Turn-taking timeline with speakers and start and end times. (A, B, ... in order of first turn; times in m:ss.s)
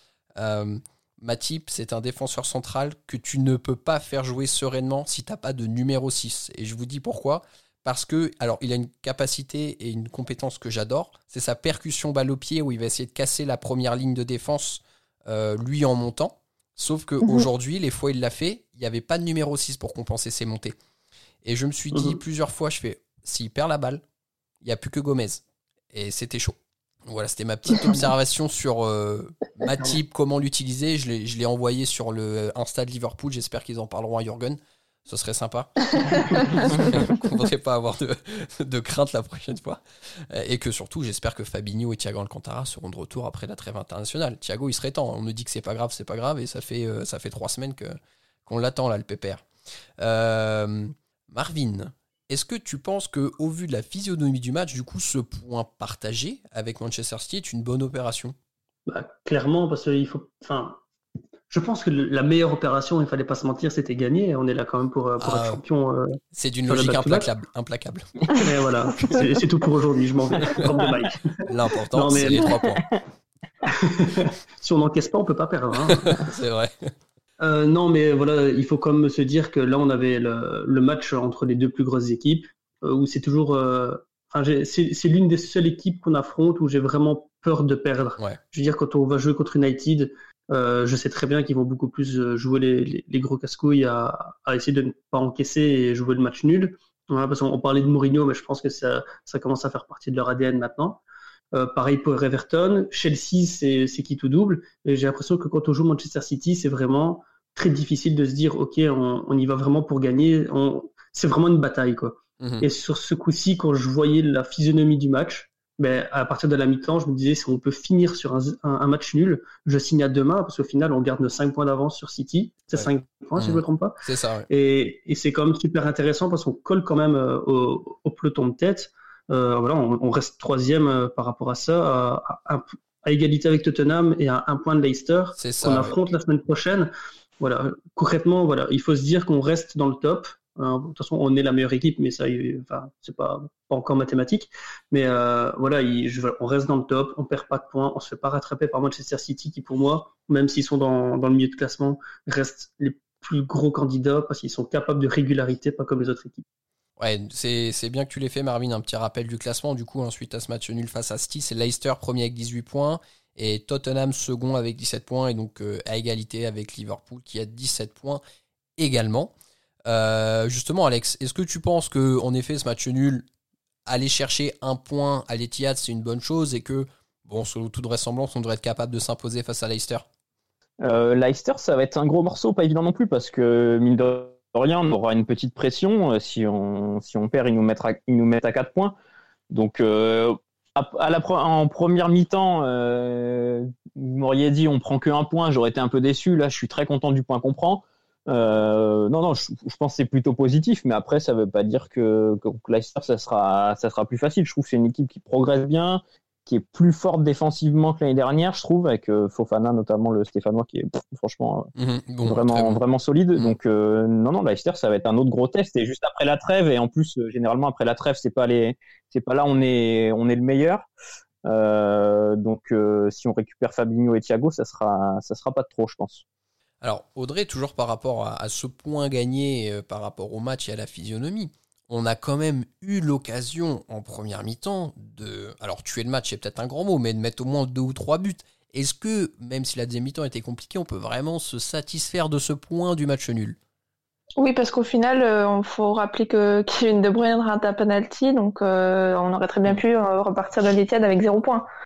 0:00.4-0:20.8 A
0:21.4-0:24.0 A
0:21.9-0:22.2 B
0:24.6-0:26.5 A
0:27.1-0:49.4 A
0:50.0-0:58.3 A
0:58.9-1:00.8 B
1:01.5-1:06.2 B
1:05.2-1:05.6 A
1:06.3-1:08.0 A
1:06.7-1:07.3 B
1:08.4-1:11.4 B
1:10.4-1:10.8 A
1:11.4-1:12.8 A
1:11.9-1:12.5 B
1:13.6-1:16.2 B
1:15.9-1:16.9 A
1:17.4-1:41.0 B
1:41.5-2:04.0 B
1:52.4-1:52.7 A
2:02.7-2:04.5 A
2:04.5-2:36.4 B
2:15.4-2:15.9 A
2:37.0-2:48.2 A
2:48.8-2:49.3 A
2:49.9-2:53.2 A
2:53.9-3:00.0 A
3:00.8-3:08.9 C
3:09.5-3:31.7 C
3:31.8-3:32.8 A
3:32.2-3:40.9 C
3:41.4-3:46.2 C
3:46.8-4:03.6 A
4:04.4-4:11.6 D